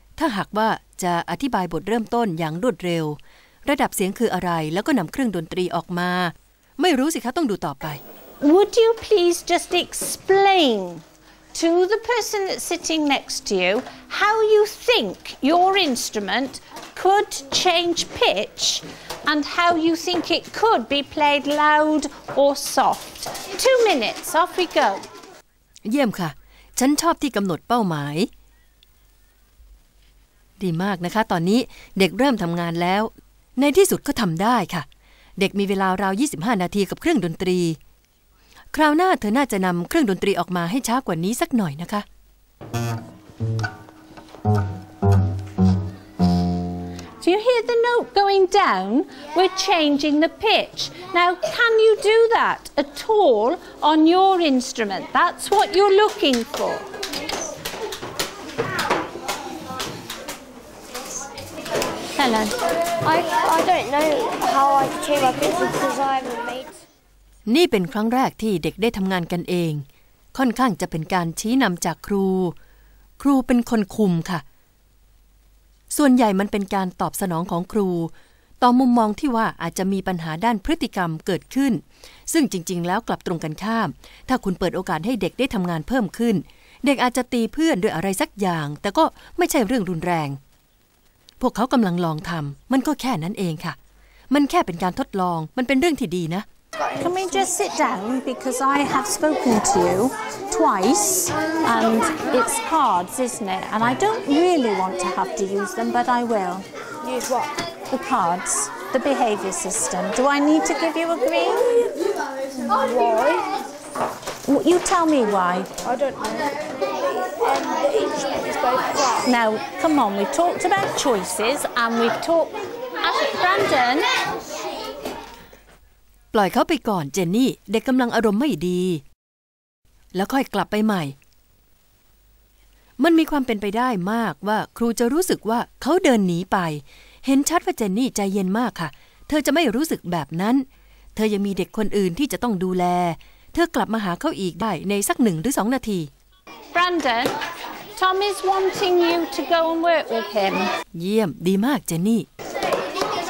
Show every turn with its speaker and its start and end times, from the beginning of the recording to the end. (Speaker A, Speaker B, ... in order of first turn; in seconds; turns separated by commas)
Speaker A: 0.2-8.0, Speaker B: 8.4-11.0, Speaker B: 11.5-25.0, Speaker A: 25.8-28.3, Speaker A: 30.6-37.8, Speaker A: 38.7-42.1, Speaker B: 47.2-56.9, Speaker B: 62.2-62.5, Speaker C: 63.0-66.8, Speaker A: 67.5-72.5, Speaker A: 73.2-74.4, Speaker A: 75.9-90.4, Speaker A: 91.4-93.8, Speaker A: 94.3-96.5, Speaker B: 97.0-106.7, Speaker C: 107.0-107.5, Speaker B: 107.9-112.0, Speaker C: 112.8-113.5, Speaker B: 114.4-115.7, Speaker C: 115.8-116.5, Speaker C: 117.2-119.2, Speaker B: 119.2-124.1, Speaker A: 126.3-129.0, Speaker A: 130.1-131.2, Speaker A: 133.0-146.1, Speaker B: 146.7-147.3, Speaker B: 148.0-150.7, Speaker A: 150.9-152.3